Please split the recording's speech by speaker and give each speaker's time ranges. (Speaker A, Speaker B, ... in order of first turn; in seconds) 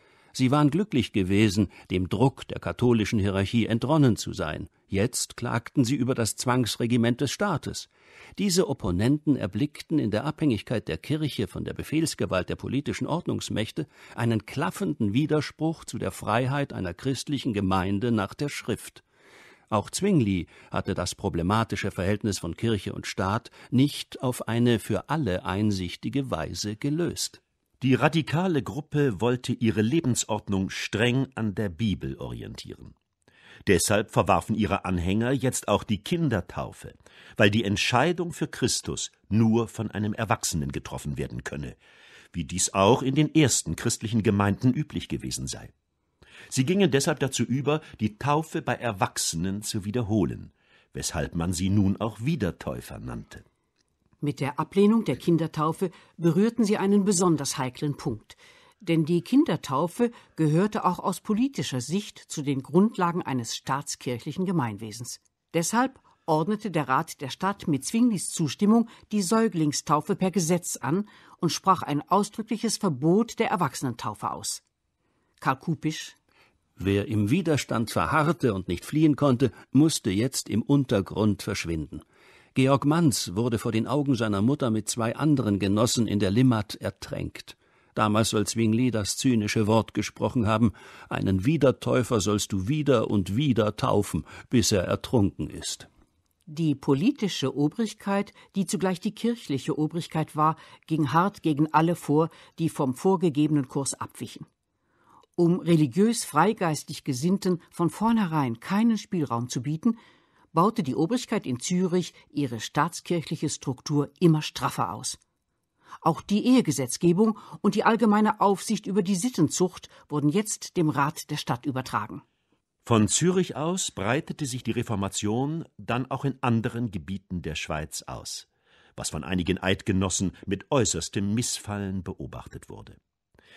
Speaker A: 0.3-19.0, 19.7-27.4, 76.8-82.0, 82.5-95.9
Speaker B: 27.8-32.9, 33.6-41.8, 42.3-45.7, 46.5-53.4, 122.8-133.0
Speaker C: 54.2-74.6, 75.4-76.2, 96.5-104.5, 105.4-110.0, 110.5-115.2, 116.0-122.2